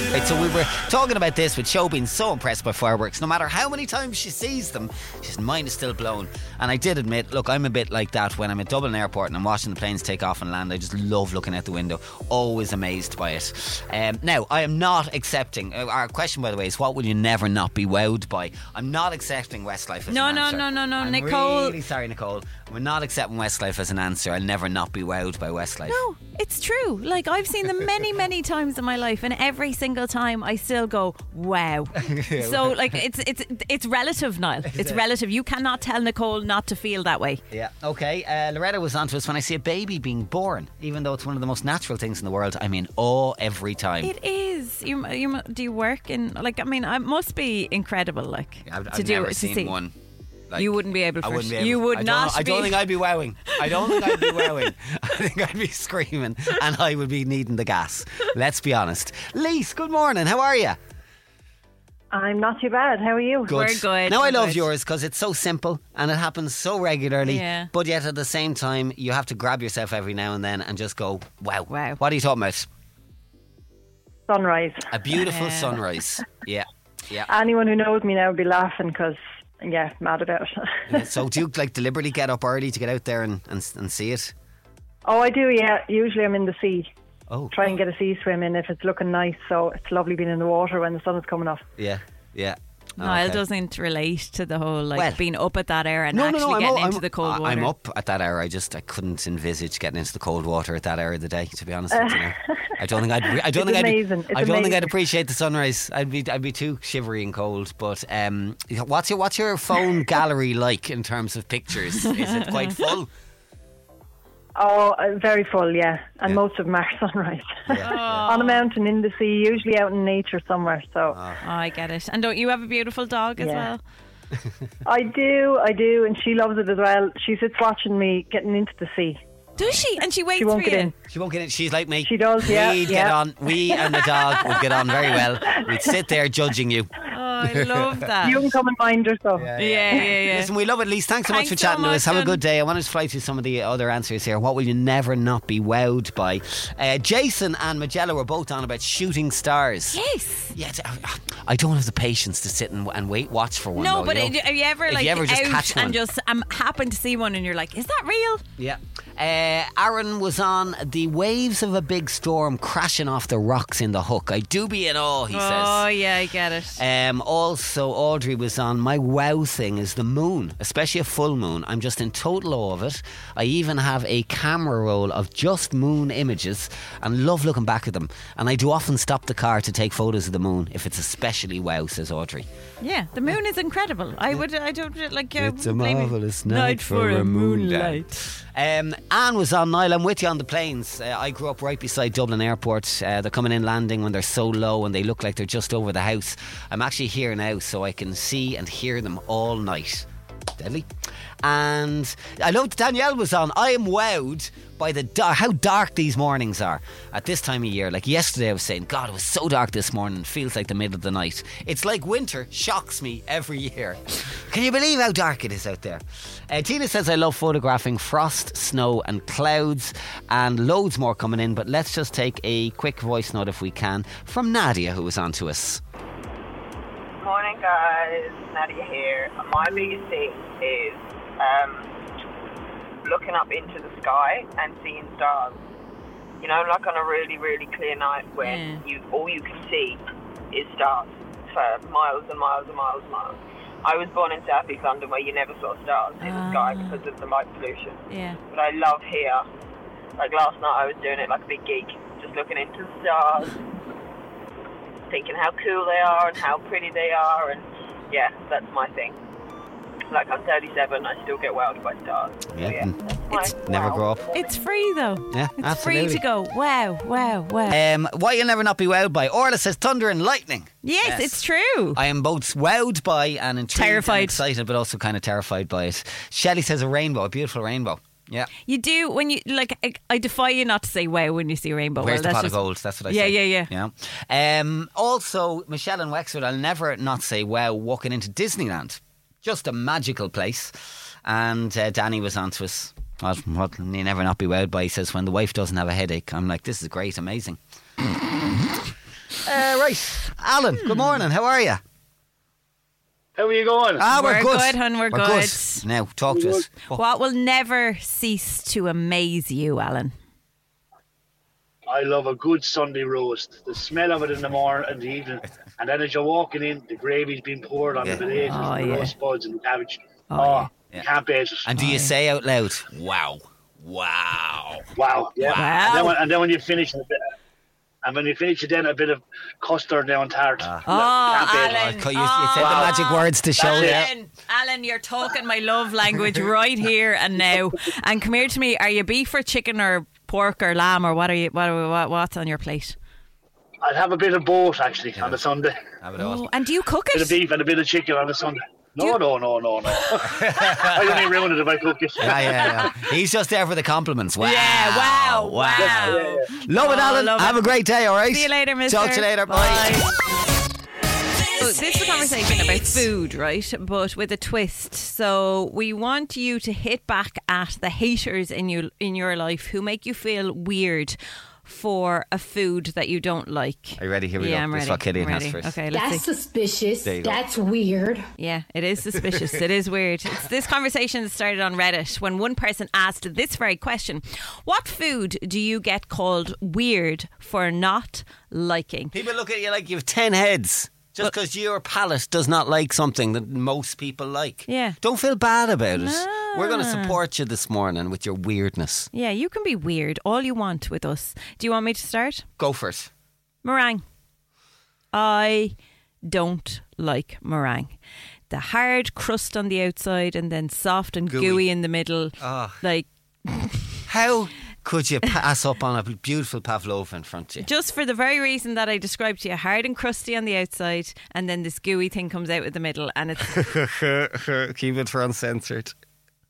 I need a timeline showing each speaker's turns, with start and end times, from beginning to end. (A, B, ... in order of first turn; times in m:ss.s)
0:00.1-0:26.0 A
0:20.1-0:21.8 B
0:25.9-0:37.4 B
0:32.0-0:33.0 A
0:34.6-0:35.0 A
0:37.5-0:44.1 A
0:44.0-0:49.7 B
0:48.6-0:49.9 A
0:50.5-1:00.8 A
0:50.6-0:52.8 B
0:53.7-0:54.5 B
1:02.1-1:03.6 C
1:03.5-1:12.7 A
1:03.5-1:04.6 B
1:07.2-1:07.7 B
1:11.7-1:12.0 B
1:14.3-1:14.9 C
1:14.9-1:17.3 A
1:15.2-1:15.8 B
1:17.3-1:21.0 C
1:20.9-1:24.3 A
1:25.1-1:26.9 C
1:27.3-1:27.8 A
1:27.5-1:31.6 C
1:31.8-1:33.4 A
1:33.0-1:37.7 B
1:34.9-1:35.2 A
1:36.1-1:53.1 A
1:41.9-1:42.7 C
1:43.3-1:44.9 C
1:52.0-1:52.9 B
1:54.6-2:01.2 C
1:57.7-1:58.3 A
1:57.8-1:58.6 B
2:01.1-2:01.4 A
2:01.4-2:03.8 B
2:03.4-2:03.7 C
2:04.8-2:09.2 C
2:09.6-2:10.9 B
2:10.4-2:10.9 C
2:11.1-2:16.9 A
2:12.0-2:13.2 C
2:17.1-2:18.4 B
2:17.4-2:18.1 A
2:18.2-2:20.0 C
2:19.3-2:30.0 A
2:19.6-2:20.5 B
2:21.3-2:22.4 B
2:29.9-2:30.5 B
2:30.5-2:36.0 A
2:33.7-2:38.4 B
2:38.6-2:45.8 A
2:45.3-2:46.8 B
2:46.8-3:02.4 A
3:02.8-3:08.2 B
3:05.4-3:20.9 A
3:21.4-3:45.8 A
3:47.2-3:51.9 D
3:53.0-3:55.6 D
3:56.4-4:00.0 D
3:58.4-3:58.8 B
4:00.5-4:09.4 D
4:06.2-4:07.0 B
4:08.1-4:08.4 B
4:10.2-4:13.6 D
4:15.1-4:19.2 D
4:20.1-4:24.5 D
4:22.5-4:23.0 A
4:23.5-4:24.2 A
4:24.3-4:27.7 B
4:25.3-4:26.2 A
4:27.7-4:31.4 A
4:30.8-4:32.0 B
4:31.9-4:38.5 A
4:33.7-4:34.4 B
4:38.6-4:43.7 B
4:42.0-4:50.7 A
4:51.2-4:57.6 A
4:59.4-5:01.8 A
5:00.8-5:01.2 B
5:03.4-5:04.0 E
5:04.0-5:07.0 A
5:04.1-5:05.8 B
5:06.3-5:06.6 E
5:06.9-5:10.1 B
5:11.9-5:21.7 E
5:18.0-5:18.3 A
5:18.4-5:19.1 B
5:20.3-5:20.7 B
5:21.6-5:24.9 A
5:21.8-5:22.1 B
5:25.0-5:27.2 E
5:25.4-5:25.9 A
5:25.5-5:26.2 B
5:28.0-5:31.9 E
5:30.6-5:30.9 A
5:30.8-5:43.0 B
5:31.5-5:34.1 A
5:32.6-5:33.0 E
5:33.6-5:34.1 E
5:43.8-5:45.8 E
5:46.0-5:46.4 A
5:46.2-5:47.4 B
5:47.1-5:52.9 E
5:50.2-5:51.2 A
5:52.2-6:00.0 A
5:52.3-5:52.9 B
5:54.4-5:57.7 B
5:55.8-5:56.5 E
5:58.3-6:00.1 B
6:01.6-6:16.3 B
6:14.0-6:15.8 A
6:15.9-6:18.3 F
6:17.0-6:17.4 A
6:18.4-6:29.1 B
6:29.1-6:39.1 A
6:34.7-6:35.0 B
6:36.0-6:37.2 B
6:39.1-6:42.4 B
6:42.6-6:43.1 A
6:43.6-6:44.0 B
6:45.1-6:48.0 B
6:48.5-6:53.8 B
6:51.3-6:51.6 A
6:52.4-6:52.8 A
6:54.1-6:57.7 A
6:57.6-7:03.6 B
7:03.5-7:05.9 A